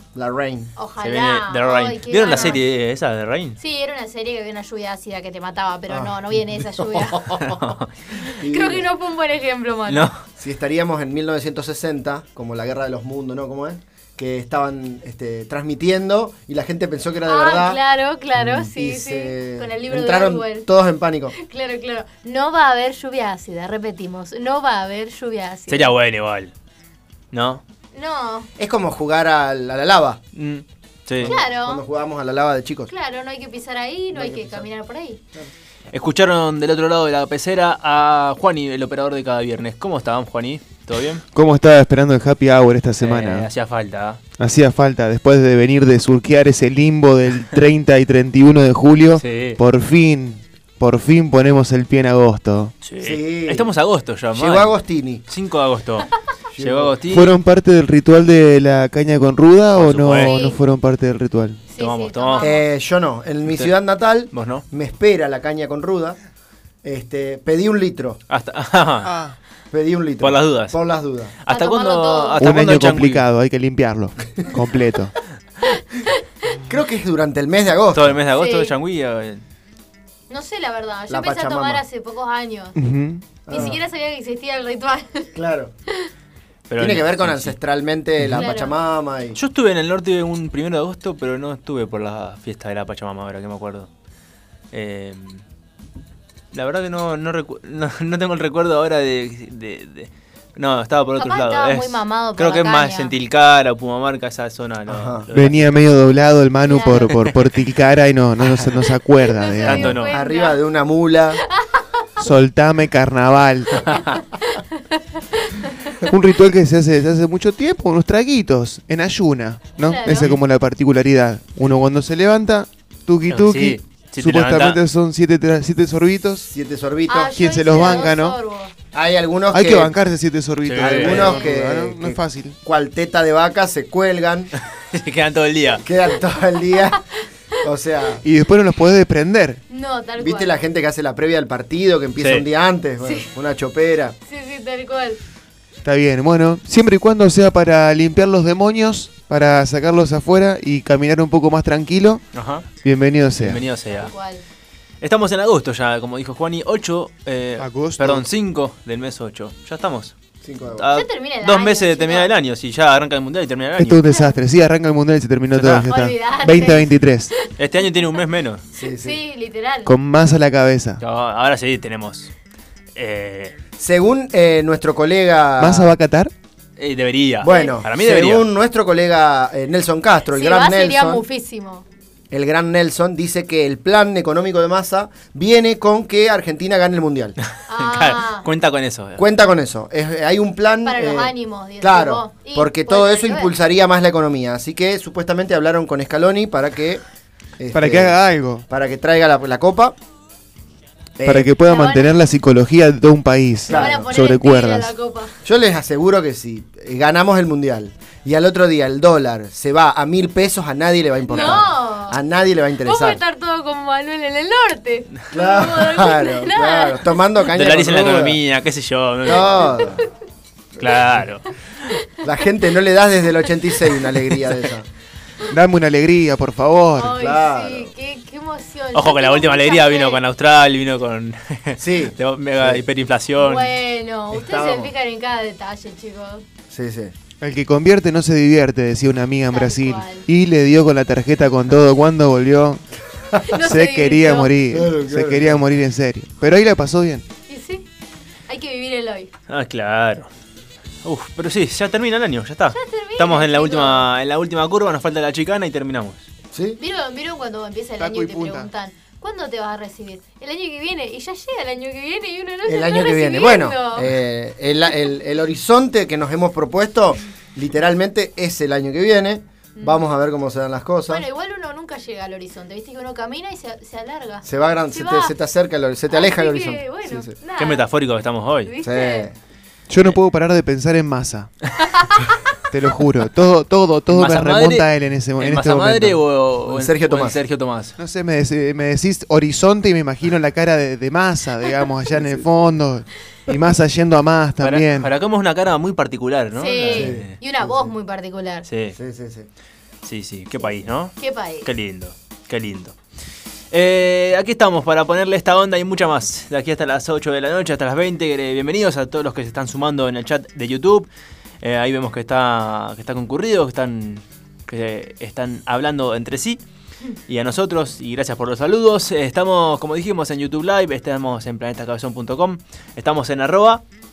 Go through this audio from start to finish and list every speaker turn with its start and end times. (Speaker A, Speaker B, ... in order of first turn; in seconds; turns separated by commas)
Speaker A: 0.1-0.7, Speaker B: 0.8-2.6, Speaker C: 1.0-3.6, Speaker B: 3.6-10.1, Speaker A: 5.9-7.4, Speaker C: 7.4-7.9, Speaker A: 8.3-8.9, Speaker C: 9.9-10.2, Speaker A: 10.4-17.8, Speaker B: 17.2-20.7, Speaker A: 18.6-21.3, Speaker B: 21.3-25.9, Speaker C: 25.7-26.5, Speaker C: 27.3-27.6, Speaker B: 27.9-28.5, Speaker A: 28.6-30.2, Speaker C: 30.3-31.3, Speaker A: 31.2-32.9, Speaker B: 31.2-31.8, Speaker B: 32.9-35.2, Speaker A: 34.1-34.7, Speaker C: 35.9-41.2, Speaker D: 41.3-43.5, Speaker C: 43.0-44.2, Speaker D: 44.4-52.7, Speaker C: 49.2-49.6, Speaker C: 52.8-54.7, Speaker A: 53.0-53.7, Speaker A: 54.3-55.2, Speaker C: 55.3-57.3, Speaker A: 56.5-56.9, Speaker D: 57.1-61.6, Speaker C: 59.7-60.4, Speaker B: 60.2-60.6, Speaker B: 61.7-62.6, Speaker C: 61.8-62.5, Speaker A: 62.4-66.2, Speaker C: 63.5-63.7, Speaker C: 64.3-64.6, Speaker A: 66.8-68.2, Speaker C: 68.3-69.1, Speaker D: 69.0-69.3, Speaker A: 69.7-71.3, Speaker C: 70.2-70.8, Speaker C: 71.4-73.2, Speaker B: 71.5-72.4, Speaker D: 72.4-75.1, Speaker B: 75.8-76.2, Speaker A: 76.7-78.2, Speaker C: 77.9-79.4, Speaker B: 78.3-78.7, Speaker B: 80.3-82.8, Speaker A: 81.1-81.8, Speaker D: 82.7-83.2, Speaker A: 83.5-83.8, Speaker B: 83.5-85.3, Speaker A: 85.3-85.7, Speaker C: 86.7-87.5, Speaker A: 86.8-89.4, Speaker B: 88.3-88.7, Speaker C: 89.3-93.9, Speaker C: 94.7-95.4, Speaker C: 96.5-105.7, Speaker B: 101.2-103.1, Speaker A: 104.9-105.2, Speaker D: 105.3-110.0, Speaker B: 106.7-107.1, Speaker C: 107.1-107.3, Speaker B: 109.2-110.6, Speaker C: 109.6-110.1, Speaker A: 110.1-111.4, Speaker B: 111.4-112.2, Speaker D: 112.2-113.9, Speaker B: 113.9-116.0, Speaker D: 116.0-126.5, Speaker B: 119.8-120.3, Speaker C: 123.3-124.8, Speaker A: 126.5-128.1, Speaker B: 127.1-128.7, Speaker D: 127.3-128.4, Speaker A: 128.9-129.9, Speaker D: 129.5-132.6, Speaker C: 130.6-131.4, Speaker A: 130.8-134.5, Speaker C: 134.8-135.8, Speaker A: 135.8-137.0, Speaker A: 137.6-138.2, Speaker D: 138.2-139.6, Speaker B: 139.7-140.6, Speaker A: 140.2-144.2, Speaker C: 142.2-142.4, Speaker B: 143.0-143.3, Speaker B: 144.2-145.2, Speaker D: 145.8-152.2, Speaker C: 152.3-152.6, Speaker D: 152.8-153.6, Speaker C: 153.4-154.1, Speaker B: 153.9-154.4, Speaker C: 155.0-160.1, Speaker D: 157.6-158.2, Speaker A: 160.4-160.9, Speaker C: 160.8-164.0, Speaker B: 160.9-162.3, Speaker D: 163.8-167.3, Speaker C: 165.5-165.9, Speaker B: 165.8-168.1, Speaker C: 167.6-168.6, Speaker A: 168.8-169.2, Speaker B: 168.8-169.9, Speaker D: 169.8-171.0, Speaker C: 171.0-172.3, Speaker C: 172.9-173.5, Speaker A: 173.8-175.9, Speaker D: 175.6-176.3, Speaker C: 176.8-178.5, Speaker A: 177.4-181.2, Speaker B: 177.4-177.8, Speaker B: 180.3-181.8, Speaker A: 182.3-187.3, Speaker B: 187.7-188.5, Speaker C: 187.7-189.2, Speaker A: 189.2-197.0, Speaker B: 190.8-193.5, Speaker A: 197.6-198.2, Speaker D: 197.7-198.6, Speaker A: 198.7-199.9, Speaker A: 201.2-201.5, Speaker D: 201.2-204.9, Speaker B: 201.7-202.1, Speaker A: 203.7-204.1, Speaker B: 203.7-205.4, Speaker A: 205.4-213.2, Speaker B: 211.3-212.2, Speaker B: 212.8-217.1, Speaker A: 215.3-218.4, Speaker C: 217.5-219.9, Speaker A: 219.2-220.1, Speaker C: 220.8-221.6, Speaker A: 222.2-224.9, Speaker D: 225.5-227.2, Speaker B: 227.0-230.2, Speaker A: 227.1-227.9, Speaker C: 228.9-233.7, Speaker A: 231.8-232.8, Speaker B: 233.4-236.4, Speaker A: 234.3-234.9, Speaker A: 236.7-237.1, Speaker D: 237.4-242.8, Speaker B: 239.5-240.2, Speaker B: 243.5-244.5, Speaker D: 243.5-247.2, Speaker A: 244.7-245.6, Speaker B: 247.5-247.8, Speaker B: 248.5-249.3, Speaker C: 249.5-250.3, Speaker C: 251.0-256.2, Speaker B: 252.7-254.1, Speaker A: 256.5-256.8, Speaker B: 256.8-264.1, Speaker D: 258.0-258.7, Speaker A: 262.6-271.2, Speaker B: 269.8-270.0, Speaker B: 271.1-275.3, Speaker A: 274.4-277.3, Speaker B: 276.1-277.9, Speaker C: 277.6-278.7, Speaker B: 278.6-279.3, Speaker A: 278.8-279.4, Speaker D: 279.9-281.5, Speaker B: 281.9-282.3, Speaker D: 282.7-286.2, Speaker C: 284.1-284.9, Speaker C: 285.4-287.9, Speaker A: 286.6-287.4, Speaker D: 288.0-295.1, Speaker C: 294.6-297.3, Speaker B: 296.5-298.6, Speaker A: 296.9-297.9, Speaker C: 298.7-299.0, Speaker A: 298.9-299.5, Speaker C: 300.0-302.9, Speaker B: 301.2-301.7, Speaker C: 303.7-311.1, Speaker C: 311.6-316.6, Speaker C: 317.3-323.8